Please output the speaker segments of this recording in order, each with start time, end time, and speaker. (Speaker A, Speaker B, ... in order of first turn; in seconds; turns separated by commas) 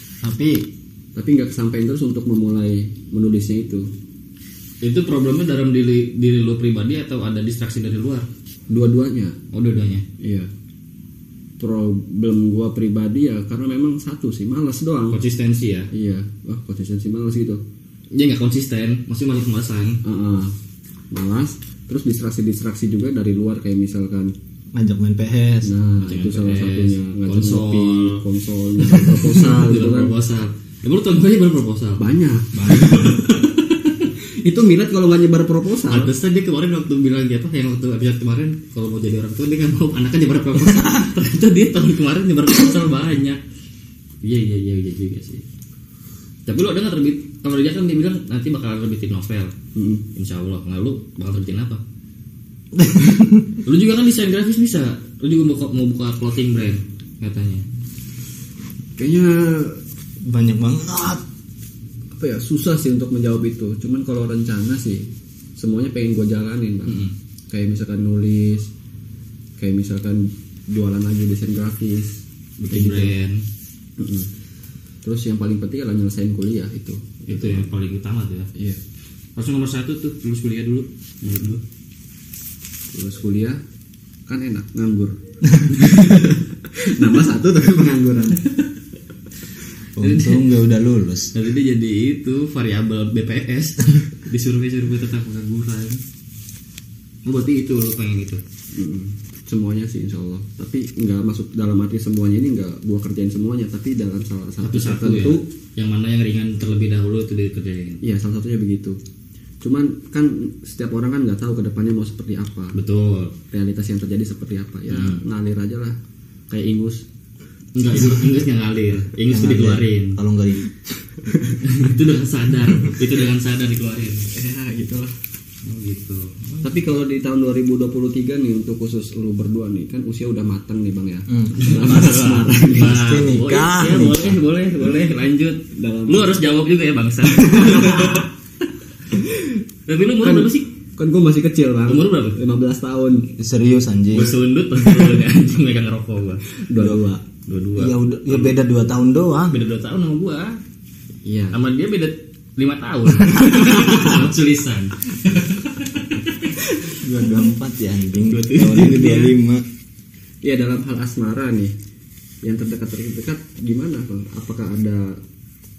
Speaker A: 0.2-0.7, Speaker B: 1.1-3.9, Speaker C: 4.8-8.3, Speaker B: 8.7-9.4, Speaker C: 9.5-10.0, Speaker B: 10.2-10.5, Speaker B: 11.6-15.2, Speaker C: 15.1-15.9, Speaker B: 15.9-17.6, Speaker C: 18.1-20.0, Speaker B: 20.0-20.5, Speaker B: 21.1-24.3, Speaker A: 24.7-25.7, Speaker B: 25.6-30.1, Speaker C: 26.0-28.2, Speaker C: 29.0-32.0, Speaker B: 32.0-33.3, Speaker A: 32.5-33.2, Speaker C: 32.9-33.5, Speaker B: 34.2-36.1, Speaker C: 35.9-43.4, Speaker C: 44.2-45.4, Speaker C: 46.5-49.5, Speaker B: 49.7-50.0, Speaker C: 50.1-51.8, Speaker A: 52.7-53.6, Speaker C: 53.6-57.6, Speaker B: 59.0-59.8, Speaker A: 60.2-61.2, Speaker B: 62.1-68.7, Speaker C: 66.9-67.1, Speaker B: 69.6-73.1, Speaker C: 72.7-73.4, Speaker B: 74.0-74.3, Speaker B: 75.0-77.6, Speaker C: 77.3-78.5, Speaker C: 79.3-81.6, Speaker B: 82.9-83.6, Speaker B: 84.3-88.4, Speaker A: 90.0-91.3, Speaker C: 90.0-90.5, Speaker C: 91.3-96.0, Speaker C: 97.2-98.4, Speaker B: 98.7-105.4, Speaker C: 104.6-108.0, Speaker B: 108.0-109.0, Speaker B: 109.6-112.8, Speaker C: 112.7-113.3, Speaker B: 113.5-116.0, Speaker C: 114.9-115.2, Speaker B: 116.5-117.0, Speaker C: 117.7-120.2, Speaker A: 119.3-120.8, Speaker C: 121.6-124.3, Speaker B: 124.3-125.1, Speaker C: 125.6-126.8, Speaker B: 126.6-133.0, Speaker A: 131.3-132.2, Speaker C: 131.6-138.3, Speaker A: 132.8-134.4, Speaker B: 135.7-136.3, Speaker B: 137.4-138.2, Speaker B: 139.1-139.6, Speaker C: 139.9-140.7, Speaker B: 140.2-143.3, Speaker C: 141.9-142.4, Speaker A: 143.4-144.4, Speaker C: 144.1-146.4, Speaker B: 146.6-147.2, Speaker C: 147.5-148.5, Speaker A: 147.8-149.6, Speaker C: 149.5-150.6, Speaker B: 151.2-151.6, Speaker C: 151.5-156.5, Speaker A: 157.0-159.6, Speaker C: 158.2-159.3, Speaker B: 160.4-161.7, Speaker B: 162.4-165.2